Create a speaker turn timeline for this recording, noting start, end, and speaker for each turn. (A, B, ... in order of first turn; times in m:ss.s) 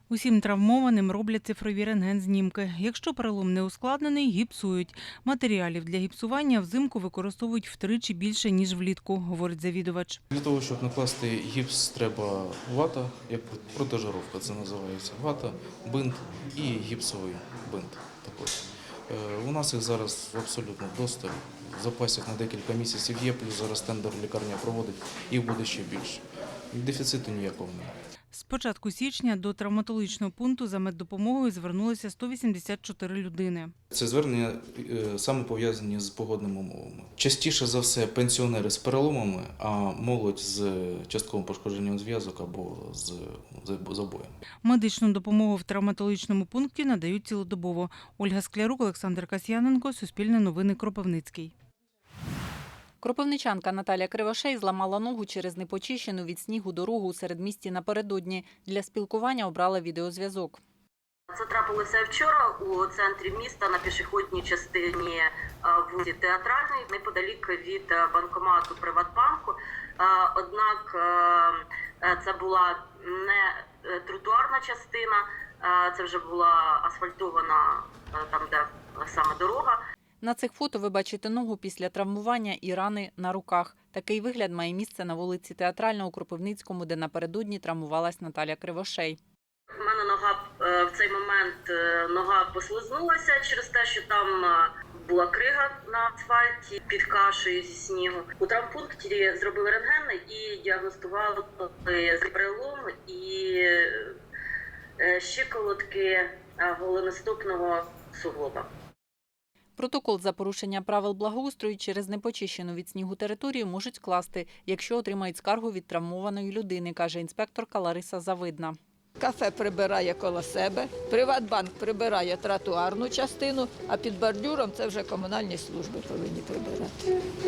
0:00.1-0:10.2 A
0:10.3-0:28.0 B
0:28.3-0:33.7 A
0:33.9-0:44.4 B
0:44.6-0:51.5 A
0:53.0-1:00.6 C
1:01.3-1:19.8 D
1:20.2-1:29.2 C
1:29.8-1:44.1 D
1:45.0-1:48.7 D
1:49.8-1:58.8 C
1:59.2-2:06.9 E